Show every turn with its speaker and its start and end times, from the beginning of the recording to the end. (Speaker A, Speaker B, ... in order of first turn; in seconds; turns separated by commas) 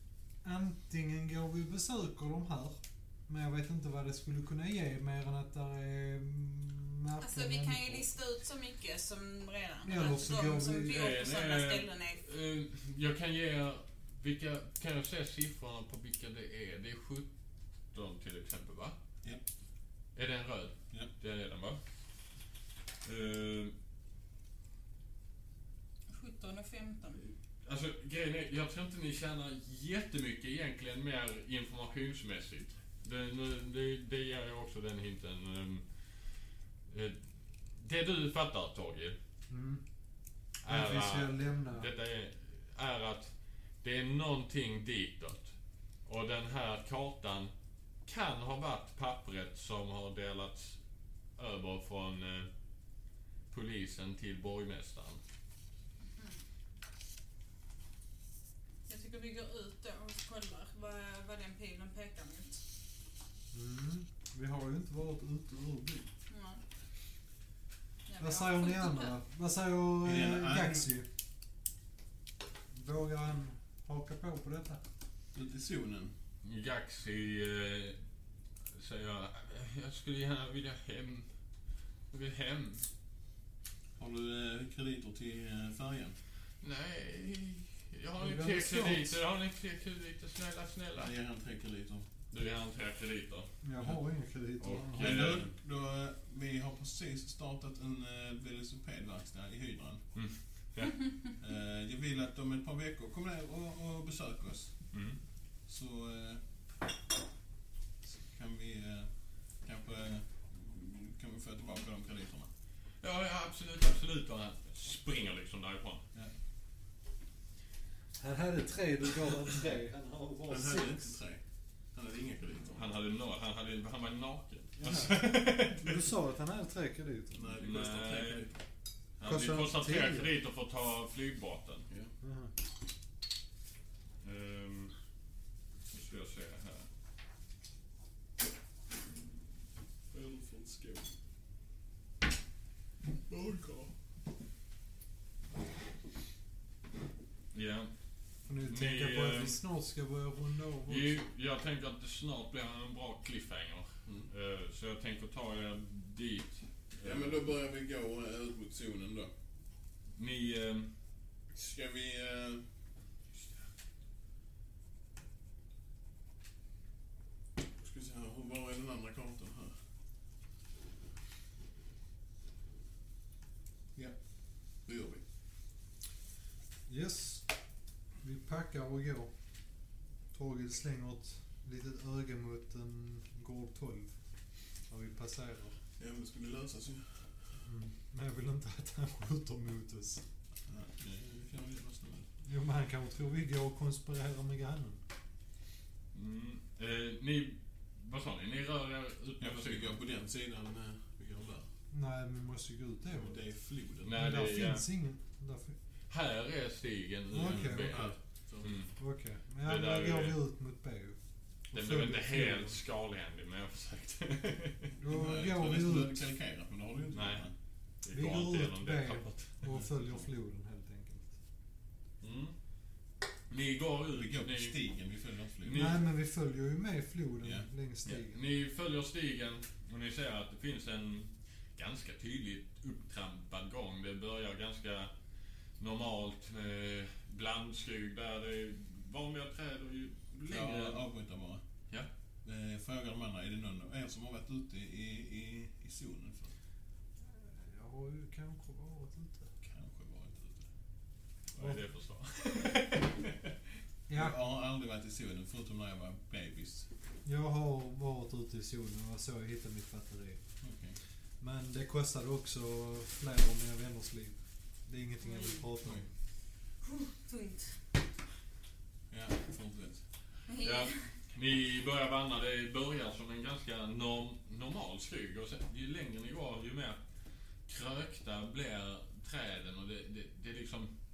Speaker A: 0.4-8.1, Speaker B: 7.2-12.2, Speaker A: 9.8-11.1, Speaker C: 10.9-17.3, Speaker C: 17.9-19.0, Speaker C: 20.1-21.8, Speaker C: 23.0-23.7, Speaker B: 26.1-27.2, Speaker C: 27.2-36.0, Speaker C: 36.9-37.2, Speaker C: 37.7-39.2, Speaker A: 39.5-39.8, Speaker C: 40.6-45.5, Speaker A: 40.6-41.9, Speaker C: 46.0-47.5, Speaker C: 48.0-50.8, Speaker C: 51.4-52.5, Speaker C: 53.5-55.2, Speaker B: 56.1-56.4, Speaker B: 58.9-62.6, Speaker A: 63.5-66.1, Speaker B: 66.3-66.6, Speaker B: 68.1-69.1, Speaker A: 68.2-71.1, Speaker D: 70.0-70.8, Speaker A: 72.7-74.8, Speaker D: 75.3-76.1, Speaker C: 76.4-78.0, Speaker C: 78.7-81.3, Speaker C: 82.1-82.8, Speaker D: 84.0-86.2, Speaker C: 86.6-91.1, Speaker A: 88.2-89.2, Speaker D: 91.0-92.1, Speaker C: 92.3-94.0, Speaker A: 93.6-95.4, Speaker C: 94.6-95.5, Speaker D: 94.9-100.0, Speaker C: 100.1-101.0, Speaker D: 101.4-104.9, Speaker C: 104.9-105.2, Speaker D: 105.7-106.4, Speaker D: 108.1-112.5, Speaker C: 113.0-116.0, Speaker A: 118.2-121.1, Speaker D: 120.5-121.4, Speaker D: 121.9-122.8, Speaker C: 122.7-126.0, Speaker A: 124.8-127.6, Speaker D: 127.3-128.5, Speaker C: 127.6-128.5, Speaker C: 129.2-131.8, Speaker A: 129.2-130.3, Speaker A: 132.2-132.5, Speaker C: 134.2-134.9, Speaker C: 135.9-136.9, Speaker D: 140.1-141.1, Speaker D: 143.1-143.9, Speaker C: 147.5-147.9, Speaker A: 148.4-151.2, Speaker C: 148.6-149.6, Speaker C: 150.9-157.4, Speaker D: 157.0-159.3, Speaker C: 160.2-160.9, Speaker D: 161.5-162.6, Speaker D: 167.8-169.7, Speaker D: 174.8-175.2, Speaker A: 176.9-177.5, Speaker A: 178.2-179.3, Speaker A: 180.3-184.1, Speaker A: 184.9-185.8, Speaker D: 186.0-187.4, Speaker A: 187.6-190.2, Speaker D: 190.7-192.3, Speaker A: 192.4-195.0, Speaker C: 196.1-200.0, Speaker D: 199.4-201.7, Speaker A: 201.9-203.4, Speaker D: 203.1-204.2, Speaker C: 204.0-204.8, Speaker A: 204.1-205.8, Speaker C: 206.1-208.9, Speaker A: 207.3-208.1, Speaker D: 207.4-208.7, Speaker A: 209.0-211.2, Speaker C: 209.6-210.3, Speaker A: 211.7-212.8, Speaker C: 211.7-214.9, Speaker A: 215.0-216.2, Speaker D: 215.0-217.5, Speaker C: 217.1-217.5, Speaker C: 218.0-219.7, Speaker A: 218.1-221.3, Speaker C: 222.2-222.5, Speaker C: 223.5-224.8, Speaker D: 224.1-225.9, Speaker C: 225.6-226.0, Speaker A: 225.7-228.4, Speaker C: 228.0-235.1, Speaker C: 235.8-241.0, Speaker D: 240.5-241.6, Speaker D: 242.4-246.5, Speaker A: 247.3-249.5, Speaker D: 249.6-250.7, Speaker C: 251.5-253.5, Speaker A: 254.1-254.3, Speaker D: 254.1-256.9, Speaker A: 257.2-260.4, Speaker D: 260.6-261.0, Speaker A: 261.4-266.1, Speaker B: 265.2-265.7, Speaker B: 266.8-267.8, Speaker D: 269.1-270.0, Speaker B: 270.5-271.0, Speaker C: 270.6-277.0, Speaker C: 277.6-280.9